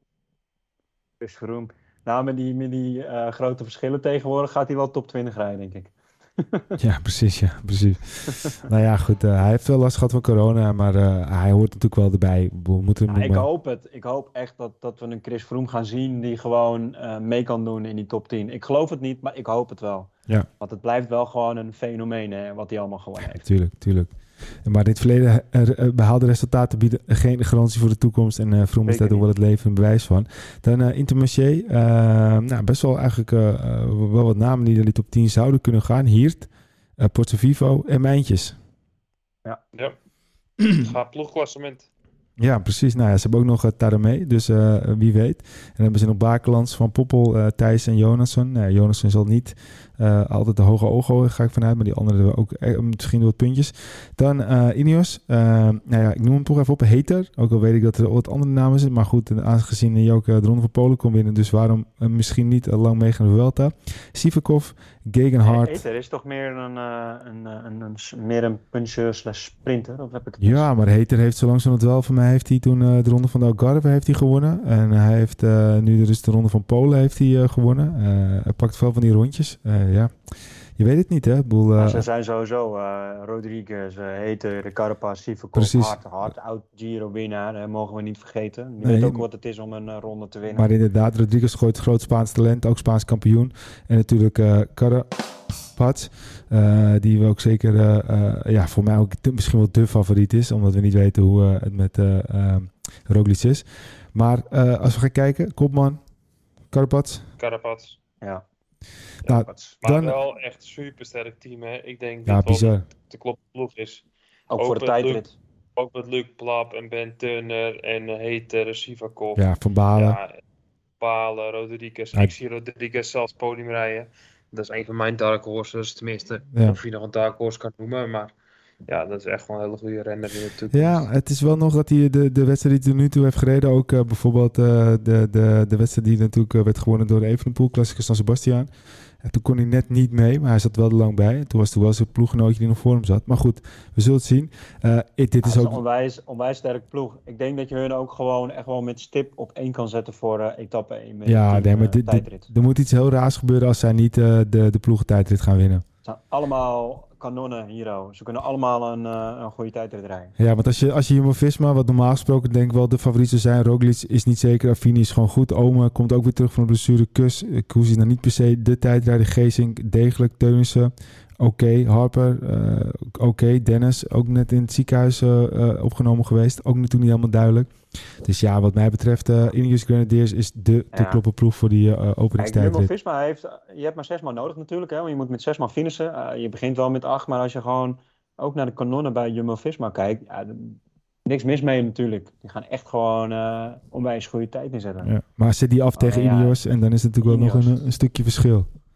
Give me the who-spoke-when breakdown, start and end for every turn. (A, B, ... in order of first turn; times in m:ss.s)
0:01.2-0:06.8 A
0:06.8-0:13.4 B
0:13.1-0:23.4 A
0:23.4-0:38.6 B
0:28.8-0:29.3 A
0:40.6-0:41.9 C
0:42.4-1:05.8 B
1:05.4-1:10.7 A
1:10.4-1:22.0 B
1:21.8-1:30.7 A
1:25.5-1:26.3 B
1:28.8-1:29.2 B
1:30.5-1:35.1 B
1:35.7-1:46.0 B
1:46.7-1:47.3 B
1:47.4-1:48.0 C
1:49.2-1:50.2 B
1:49.2-1:49.7 A
1:49.8-1:54.0 C
1:52.2-1:52.8 B
1:54.5-1:55.3 A
1:54.6-1:55.2 C
1:55.8-1:59.4 C
1:59.4-2:00.2 B
2:00.0-2:00.3 C
2:01.0-2:08.3 C
2:08.9-2:11.1 C
2:10.7-2:18.7 B
2:19.2-2:25.8 B
2:25.4-2:32.5 A
2:31.2-2:35.8 B
2:36.0-2:40.3 A
2:40.4-3:02.9 B
3:00.9-3:01.2 A
3:02.4-3:15.1 A
3:15.0-3:18.7 B
3:16.0-3:16.6 A
3:17.2-3:17.8 A